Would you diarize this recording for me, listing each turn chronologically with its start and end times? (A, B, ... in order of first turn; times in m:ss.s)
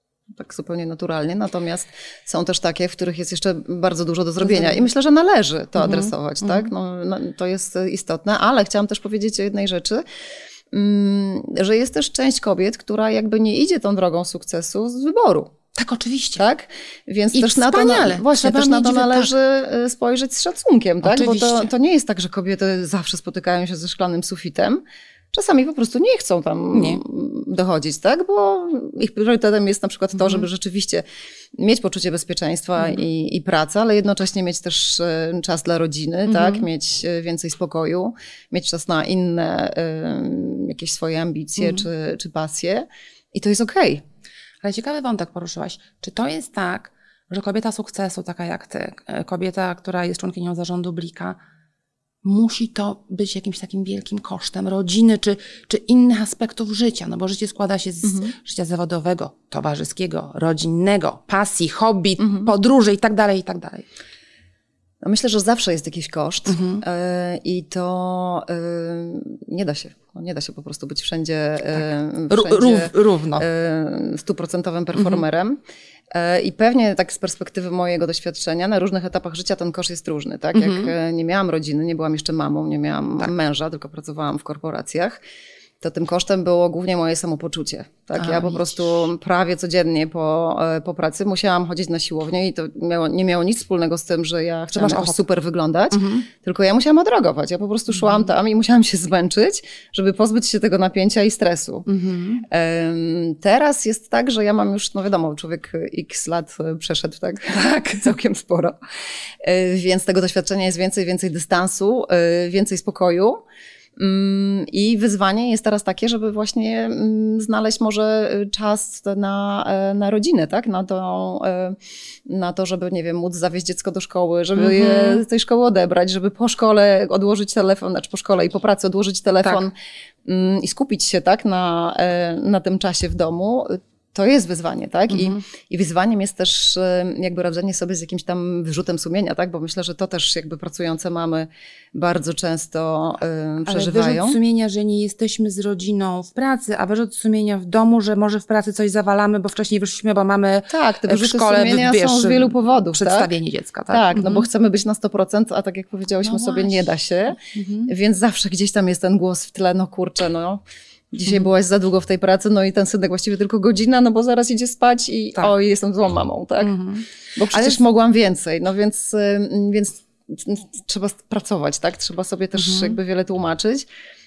0:00.3-0:10.0 A
0:04.4-0:04.9 B
0:05.8-0:06.7 B
0:10.7-0:15.6 A
0:15.8-0:16.4 B
0:16.4-0:24.8 A
0:17.3-0:19.3 B
0:21.0-0:21.7 B
0:25.3-0:31.0 A
0:26.7-0:27.0 B
0:31.6-0:44.0 A
0:36.3-0:36.6 B
0:41.6-0:41.8 B
0:44.6-0:51.4 B
0:52.2-1:03.9 B
0:58.0-0:58.3 A
1:02.2-1:02.5 A
1:05.0-1:15.6 A
1:06.5-1:06.8 B
1:12.3-1:13.4 B
1:15.0-1:15.2 B
1:16.1-1:25.2 A
1:20.6-1:20.9 B
1:25.8-1:41.9 A
1:28.2-1:28.9 B
1:34.7-1:35.2 B
1:35.9-1:36.3 B
1:41.9-1:42.4 B
1:42.5-1:48.8 A
1:47.6-1:48.1 B
1:49.4-1:53.4 A
1:54.0-2:09.7 A
2:04.6-2:05.2 B
2:10.2-2:24.4 A
2:15.1-2:15.4 B
2:23.6-2:34.4 B
2:30.7-2:33.3 A
2:33.9-2:46.8 A
2:36.2-2:37.9 B
2:46.6-2:47.8 B
2:47.4-2:53.9 A
2:52.6-2:53.0 B